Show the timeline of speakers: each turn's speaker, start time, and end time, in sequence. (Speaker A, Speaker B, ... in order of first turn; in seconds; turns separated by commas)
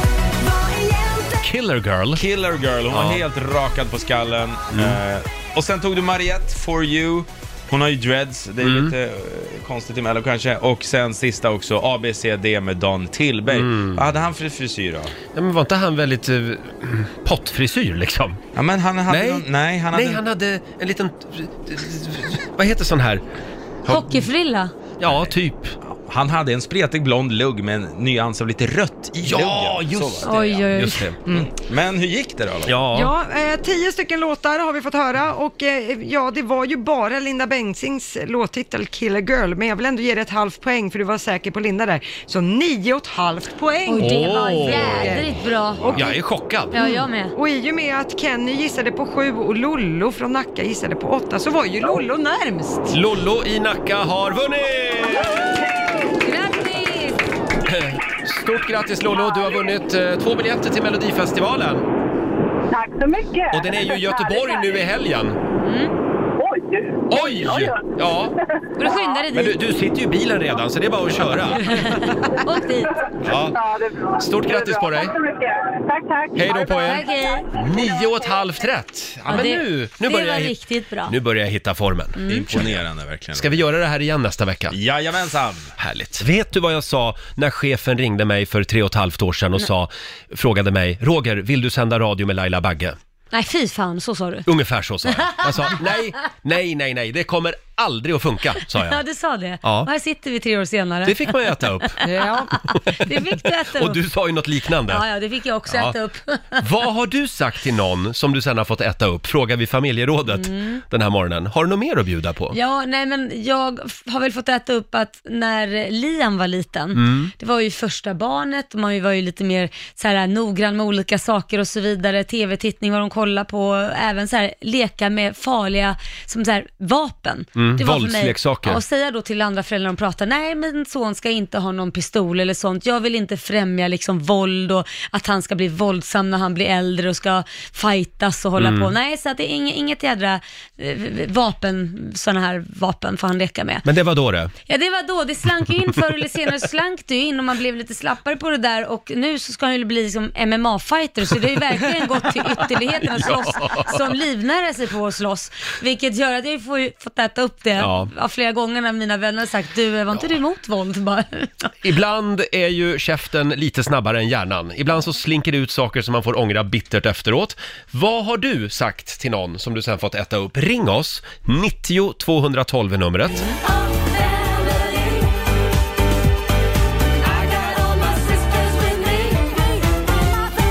Speaker A: 1.4-2.2, Speaker B: 2.1-15.1, Speaker A: 2.9-3.2, Speaker A: 4.7-5.0, Speaker A: 8.6-8.9, Speaker A: 13.5-14.1, Speaker A: 15.3-18.4, Speaker B: 18.5-20.2, Speaker A: 19.1-23.2, Speaker C: 23.9-24.7, Speaker A: 25.0-25.8, Speaker B: 25.8-30.6, Speaker A: 29.2-31.2, Speaker C: 30.2-31.1, Speaker B: 31.3-32.7, Speaker A: 32.6-33.1, Speaker D: 32.9-45.3, Speaker C: 43.9-46.1, Speaker A: 44.0-45.1, Speaker D: 45.8-46.1, Speaker A: 45.9-46.8, Speaker C: 46.7-47.3, Speaker D: 46.7-52.9, Speaker A: 52.9-55.5, Speaker C: 56.2-57.2, Speaker A: 57.6-61.8, Speaker E: 62.7-64.9, Speaker A: 63.5-65.4, Speaker C: 65.5-65.9, Speaker E: 66.4-67.8, Speaker A: 67.1-68.3, Speaker C: 68.8-69.6, Speaker E: 68.8-69.2, Speaker A: 69.3-71.8, Speaker C: 71.7-73.0, Speaker A: 73.2-73.6, Speaker E: 73.3-78.1, Speaker A: 74.2-75.2, Speaker A: 76.3-80.5, Speaker C: 76.7-77.5, Speaker C: 79.3-81.1, Speaker A: 81.1-84.8, Speaker C: 82.2-82.5, Speaker B: 82.3-83.7, Speaker B: 84.7-85.7, Speaker A: 85.8-93.0, Speaker C: 93.3-94.5, Speaker A: 94.5-99.0, Speaker C: 95.2-95.7, Speaker C: 98.8-101.3, Speaker A: 99.6-99.9, Speaker A: 101.0-102.0, Speaker D: 102.0-102.6, Speaker C: 103.0-104.0, Speaker A: 103.7-105.0, Speaker C: 104.9-106.6, Speaker A: 105.7-106.0, Speaker A: 106.6-112.5, Speaker C: 110.3-110.8, Speaker C: 112.5-143.8, Speaker A: 116.9-117.3, Speaker A: 127.5-128.8, Speaker A: 138.6-138.9, Speaker A: 143.8-144.5, Speaker C: 144.7-161.7, Speaker A: 153.2-154.1, Speaker A: 157.8-158.1, Speaker A: 161.8-173.4, Speaker D: 177.3-178.1